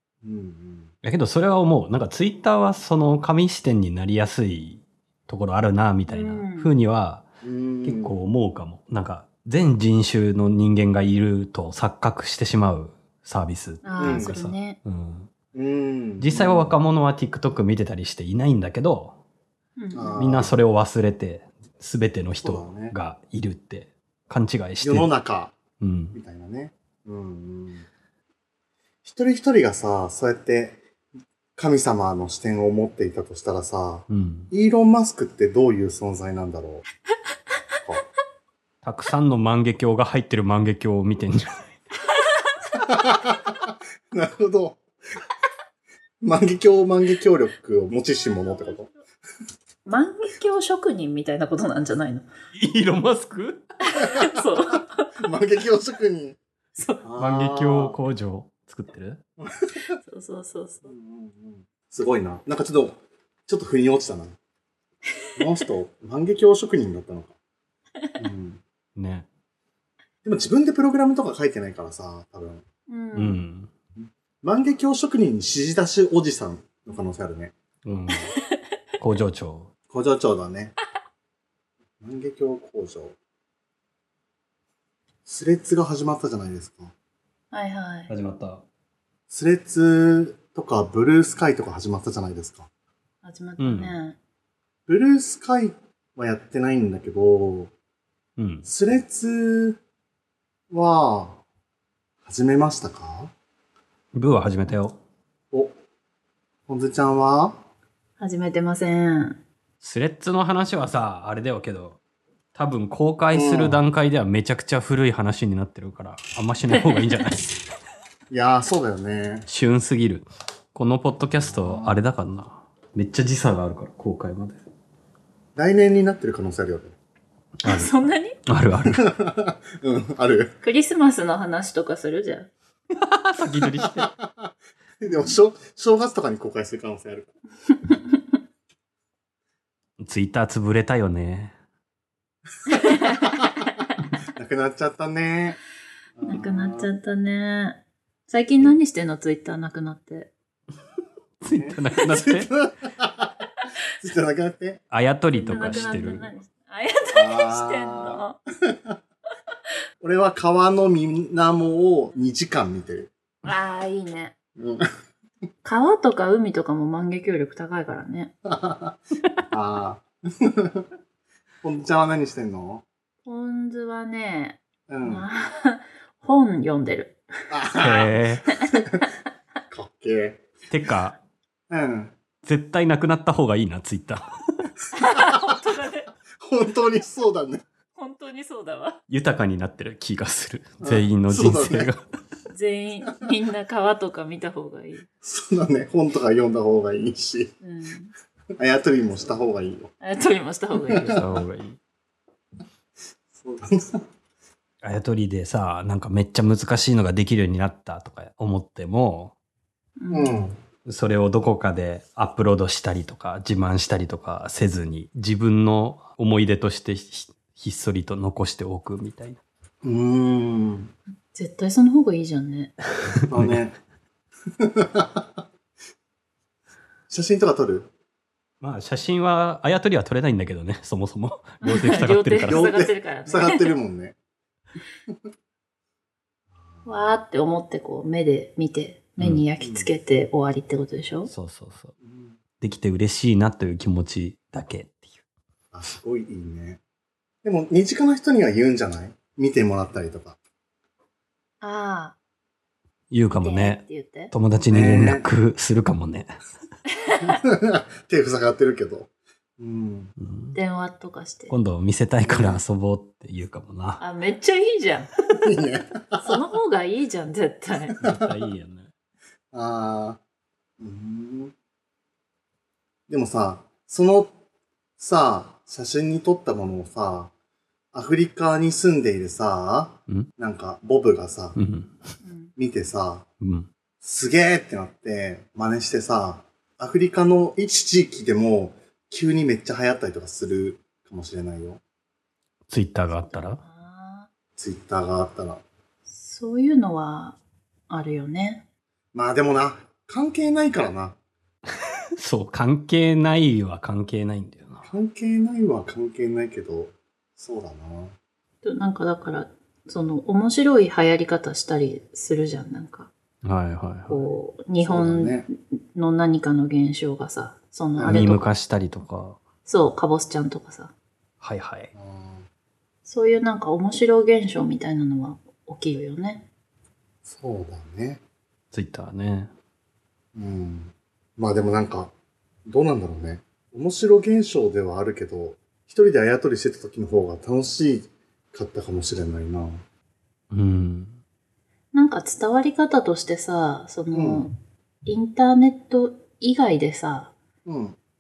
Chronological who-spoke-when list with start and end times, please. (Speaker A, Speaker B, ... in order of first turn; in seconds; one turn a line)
Speaker A: 0.2-0.9
Speaker B: 1.0-7.2
Speaker C: 6.1-6.7
Speaker A: 7.4-8.2
Speaker B: 7.8-15.3
Speaker C: 13.8-14.8
Speaker A: 14.0-14.3
Speaker A: 15.5-16.7
Speaker B: 16.2-19.2
Speaker C: 19.8-20.3
Speaker A: 19.9-20.6
Speaker B: 20.2-25.1
Speaker A: 22.4-22.9
Speaker A: 24.8-25.6
Speaker B: 25.8-26.2
Speaker A: 26.1-27.9
Speaker A: 29.0-30.8
Speaker A: 31.6-36.9
Speaker B: 34.1-34.5
Speaker B: 38.8-41.7
Speaker A: 42.7-44.8
Speaker A: 46.2-48.9
Speaker C: 48.4-48.9
Speaker C: 49.9-52.2
Speaker B: 52.5-53.6
Speaker C: 53.9-55.1
Speaker A: 55.2-56.4
Speaker C: 56.8-57.0
Speaker A: 57.0-58.0
Speaker B: 57.2-59.2
Speaker A: 59.4-59.8
Speaker C: 60.0-60.9
Speaker A: 60.9-64.4
Speaker A: 65.4-67.3
Speaker A: 68.2-68.6
Speaker B: 69.0-69.3
Speaker A: 70.2-72.6
Speaker C: 72.9-73.4
Speaker B: 73.2-73.7
Speaker A: 74.0-77.5
Speaker B: 77.8-78.3
Speaker C: 78.3-78.6
Speaker B: 79.0-79.7
Speaker A: 79.9-80.8
Speaker A: 82.0-83.2
Speaker A: 85.2-86.9
Speaker C: 87.5-88.1
Speaker B: 88.1-88.6
Speaker A: 89.3-92.7
Speaker C: 93.2-94.2
Speaker B: 93.6-93.9
Speaker A: 94.9-97.7
Speaker B: 98.4-98.7
Speaker A: 98.7-99.8
Speaker A: 100.7-101.4
Speaker A: 102.2-103.3
Speaker B: 104.1-105.0
Speaker A: 105.5-105.8
Speaker A: 106.7-107.6
Speaker C: 108.2-109.4
Speaker B: 109.8-112.0
Speaker B: 112.5-117.6
Speaker A: 113.3-113.8
Speaker C: 116.7-117.2
Speaker A: 118.3-119.5
Speaker B: 119.5-124.6
Speaker A: 121.4-121.9
Speaker A: 125.6-127.0
Speaker B: 127.6-127.9
Speaker C: 127.6-128.4
Speaker B: 128.5-129.0
Speaker A: 128.9-130.6
Speaker C: 130.6-132.5
Speaker B: 133.0-134.1
Speaker A: 133.8-137.3
Speaker C: 137.9-138.2
Speaker B: 140.0-141.6
Speaker C: 142.8-143.4
Speaker A: 142.9-143.4
Speaker A: 144.4-145.6
Speaker A: 146.2-146.9
Speaker C: 146.2-150.3
Speaker B: 151.4-152.6
Speaker A: 151.5-153.4
Speaker A: 154.0-154.8
Speaker B: 154.9-156.3
Speaker C: 155.4-158.4
Speaker A: 155.5-156.1
Speaker A: 157.1-159.0
Speaker A: 160.0-163.1
Speaker C: 163.4-164.3
Speaker A: 164.6-164.8
Speaker C: 165.6-168.3
Speaker A: 168.5-169.0
Speaker A: 169.5-170.9
Speaker A: 171.6-172.8
Speaker C: 173.2-177.2
Speaker A: 174.9-175.2
Speaker A: 177.5-179.1
Speaker B: 177.8-178.5
Speaker A: 179.7-180.5
Speaker B: 180.7-181.2
Speaker A: 181.7-182.1
Speaker B: 182.4-184.7
Speaker C: 184.9-186.1
Speaker A: 186.4-187.6
Speaker C: 188.0-189.0
Speaker B: 189.1-192.0
Speaker A: 190.8-191.9
Speaker C: 192.5-195.1
Speaker A: 195.2-197.5
Speaker C: 197.6-198.1
Speaker A: 198.6-199.9
Speaker C: 200.0-201.2
Speaker A: 200.9-201.2
Speaker B: 201.1-201.8
Speaker A: 203.3-204.1
Speaker B: 204.8-209.3
Speaker C: 210.0-210.4
Speaker A: 210.1-210.6
Speaker B: 210.8-219.4
Speaker A: 219.8-220.9
Speaker C: 221.3-222.8
Speaker B: 223.1-223.6
Speaker A: 223.3-223.8
Speaker A: 224.6-225.3
Speaker A: 227.1-227.9
Speaker B: 228.6-232.6
Speaker C: 231.6-233.7
Speaker A: 232.5-234.2
Speaker A: 236.6-237.1
Speaker C: 236.8-241.3
Speaker A: 239.6-239.9
Speaker B: 241.3-241.9
Speaker A: 242.0-242.4
Speaker B: 242.6-245.1
Speaker A: 245.7-246.8
Speaker A: 247.4-250.4
Speaker C: 251.6-252.2
Speaker B: 253.1-256.3
Speaker C: 253.4-254.3
Speaker A: 254.7-255.3
Speaker C: 257.0-257.4
Speaker A: 257.4-260.1
Speaker B: 260.2-260.6
Speaker C: 260.6-261.5
Speaker B: 261.5-264.0
Speaker A: 262.3-262.6
Speaker C: 264.0-265.1
Speaker A: 265.3-266.3
Speaker C: 266.2-267.9
Speaker A: 268.0-268.3
Speaker B: 268.0-268.9
Speaker A: 269.5-270.2
Speaker A: 270.8-271.5
Speaker A: 273.1-274.3
Speaker A: 275.0-277.3
Speaker A: 277.9-281.6
Speaker B: 281.6-281.9
Speaker C: 282.2-282.5
Speaker A: 282.6-283.3
Speaker B: 283.4-283.7
Speaker A: 284.0-291.8
Speaker B: 292.7-293.6
Speaker C: 293.0-294.3
Speaker A: 294.6-295.6
Speaker C: 296.1-297.4
Speaker C: 297.9-298.6
Speaker A: 299.1-301.2
Speaker B: 302.2-304.9
Speaker A: 304.8-308.1
Speaker C: 308.6-313.1
Speaker B: 313.4-314.3
Speaker C: 314.1-318.4
Speaker A: 314.8-315.5
Speaker A: 318.0-318.4
Speaker B: 318.1-319.4
Speaker C: 319.7-320.9
Speaker B: 321.4-321.9
Speaker A: 321.9-322.4
Speaker C: 323.1-326.4
Speaker A: 327.3-328.2
Speaker B: 328.7-329.5
Speaker A: 330.3-332.1
Speaker A: 332.7-339.8
Speaker B: 340.5-341.1
Speaker C: 341.9-347.3
Speaker A: 344.1-344.4
Speaker A: 347.6-348.0